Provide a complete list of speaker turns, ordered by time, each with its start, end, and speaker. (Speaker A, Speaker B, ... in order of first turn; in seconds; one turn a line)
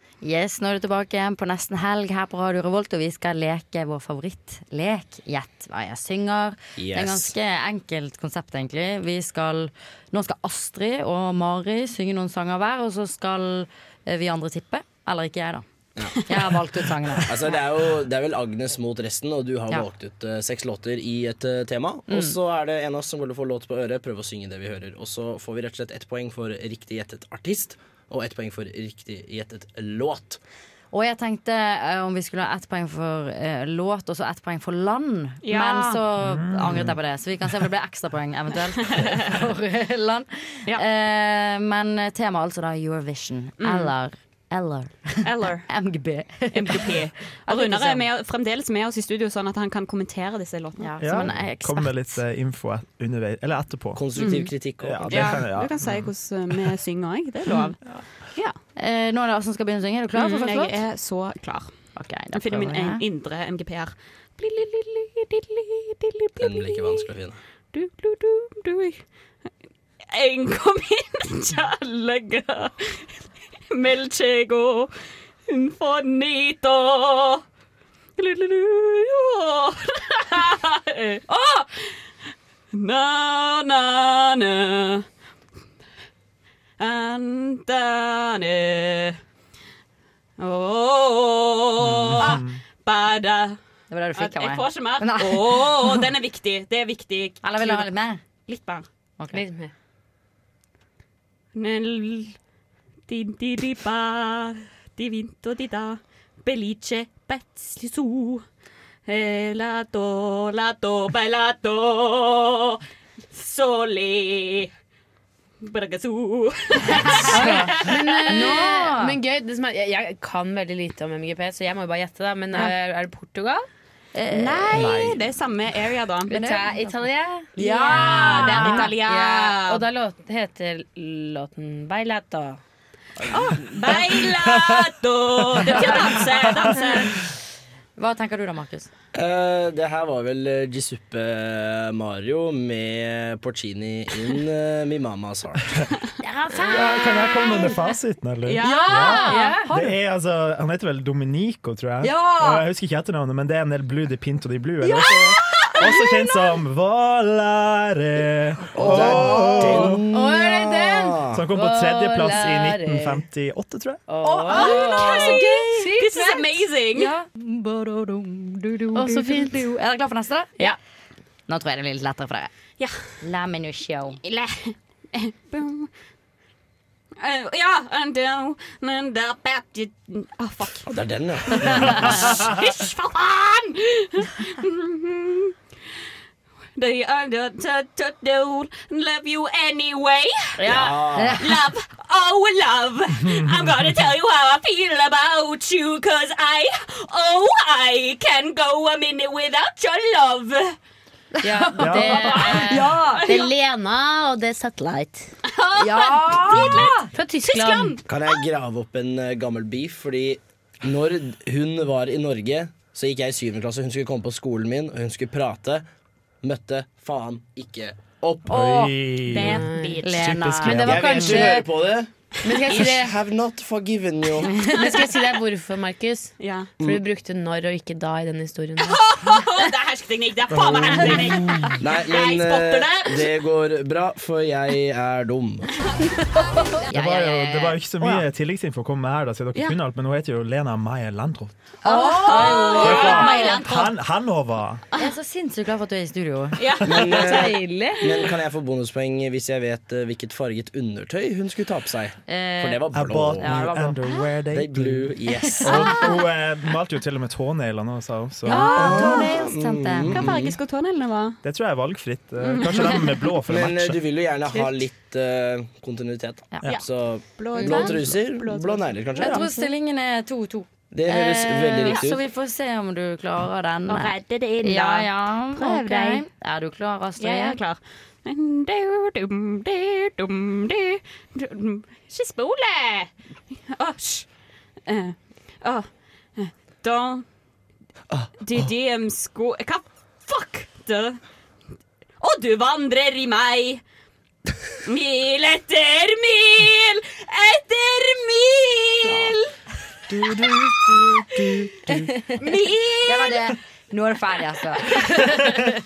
Speaker A: 0.2-15.7
Speaker B: 6.8-7.3
Speaker A: 16.2-17.6
Speaker B: 17.2-30.4
Speaker A: 22.1-22.4
Speaker A: 30.9-48.1
Speaker C: 35.4-36.0
Speaker D: 36.2-37.0
Speaker C: 43.6-43.9
Speaker C: 45.2-45.7
Speaker C: 46.5-51.3
Speaker A: 50.8-52.2
Speaker D: 51.0-54.1
Speaker B: 54.0-55.4
Speaker C: 54.2-54.5
Speaker D: 54.8-56.1
Speaker C: 55.1-57.8
Speaker A: 58.8-60.8
Speaker C: 60.2-61.7
Speaker A: 62.0-63.0
Speaker C: 62.3-67.1
Speaker B: 66.4-67.4
Speaker C: 67.7-69.0
Speaker C: 70.1-73.1
Speaker C: 73.7-74.9
Speaker C: 75.5-77.4
Speaker C: 78.2-81.9
Speaker C: 82.7-85.1
Speaker C: 86.8-89.2
Speaker C: 90.4-93.6
Speaker D: 91.8-92.6
Speaker A: 93.9-96.1
Speaker C: 94.2-97.9
Speaker A: 97.4-98.2
Speaker C: 98.5-98.9
Speaker E: 99.3-99.7
Speaker C: 101.5-102.3
Speaker C: 103.1-108.4
Speaker C: 109.1-112.8
Speaker C: 113.3-114.7
Speaker C: 115.6-118.0
Speaker A: 116.9-117.7
Speaker E: 117.3-123.7
Speaker A: 118.3-119.2
Speaker A: 124.2-125.2
Speaker C: 124.3-126.4
Speaker A: 126.3-127.0
Speaker E: 126.3-132.6
Speaker A: 127.6-129.0
Speaker C: 127.6-129.8
Speaker C: 133.3-137.2
Speaker A: 135.7-136.2
Speaker A: 138.0-138.9
Speaker B: 139.1-145.7
Speaker A: 146.2-147.8
Speaker D: 146.7-160.1
Speaker C: 148.4-149.7
Speaker A: 148.6-150.0
Speaker E: 148.8-149.6
Speaker A: 152.0-152.7
Speaker A: 154.8-156.4
Speaker B: 158.7-161.4
Speaker E: 159.0-163.2
Speaker A: 159.2-159.8
Speaker D: 161.3-164.0
Speaker E: 164.1-166.4
Speaker A: 164.2-165.5
Speaker C: 164.5-167.1
Speaker A: 166.9-170.8
Speaker E: 168.9-169.7
Speaker A: 171.5-172.5
Speaker A: 173.2-174.2
Speaker C: 174.2-175.9
Speaker C: 177.2-180.9
Speaker B: 180.9-182.2
Speaker C: 181.6-185.6
Speaker C: 186.8-200.8
Speaker A: 190.6-191.6
Speaker B: 190.7-191.4
Speaker D: 193.2-194.0
Speaker A: 201.4-203.3
Speaker E: 201.4-205.3
Speaker D: 201.8-202.2
Speaker C: 202.2-203.5
Speaker C: 205.5-208.3
Speaker A: 205.8-207.1
Speaker E: 207.1-208.0
Speaker B: 208.1-215.8
Speaker B: 216.4-218.6
Speaker D: 218.5-219.6
Speaker A: 218.5-218.9
Speaker C: 219.3-220.4
Speaker E: 219.4-220.0
Speaker A: 220.0-221.7
Speaker D: 220.2-221.3
Speaker E: 220.6-221.6
Speaker B: 220.8-222.1
Speaker E: 222.4-223.2
Speaker B: 222.7-224.5
Speaker A: 224.4-224.9
Speaker E: 224.7-229.0
Speaker C: 226.4-226.7
Speaker C: 228.8-233.3
Speaker D: 230.5-231.1
Speaker B: 231.8-235.7
Speaker A: 236.9-238.2
Speaker D: 236.9-241.6
Speaker A: 241.8-243.6
Speaker C: 241.8-243.9
Speaker D: 242.8-244.8
Speaker A: 245.0-246.8
Speaker C: 246.6-247.5
Speaker B: 246.8-253.7
Speaker E: 247.1-248.2
Speaker A: 252.3-254.0
Speaker D: 252.9-258.7
Speaker B: 254.5-256.0
Speaker A: 255.3-256.1
Speaker A: 258.5-260.3
Speaker C: 258.5-259.3
Speaker B: 258.6-260.6
Speaker C: 260.1-261.4
Speaker D: 261.4-264.0
Speaker C: 262.4-263.2
Speaker B: 263.5-269.4
Speaker C: 266.6-269.7
Speaker A: 267.6-267.9
Speaker A: 269.2-277.6
Speaker B: 270.9-272.2
Speaker C: 271.8-272.2
Speaker C: 273.9-276.2
Speaker C: 277.2-283.1
Speaker C: 283.7-284.3
Speaker C: 284.9-287.2
Speaker C: 288.4-291.2
Speaker C: 292.2-293.8
Speaker C: 294.9-299.5
Speaker A: 299.1-299.4
Speaker A: 301.9-302.5
Speaker C: 302.4-303.5
Speaker A: 303.0-305.6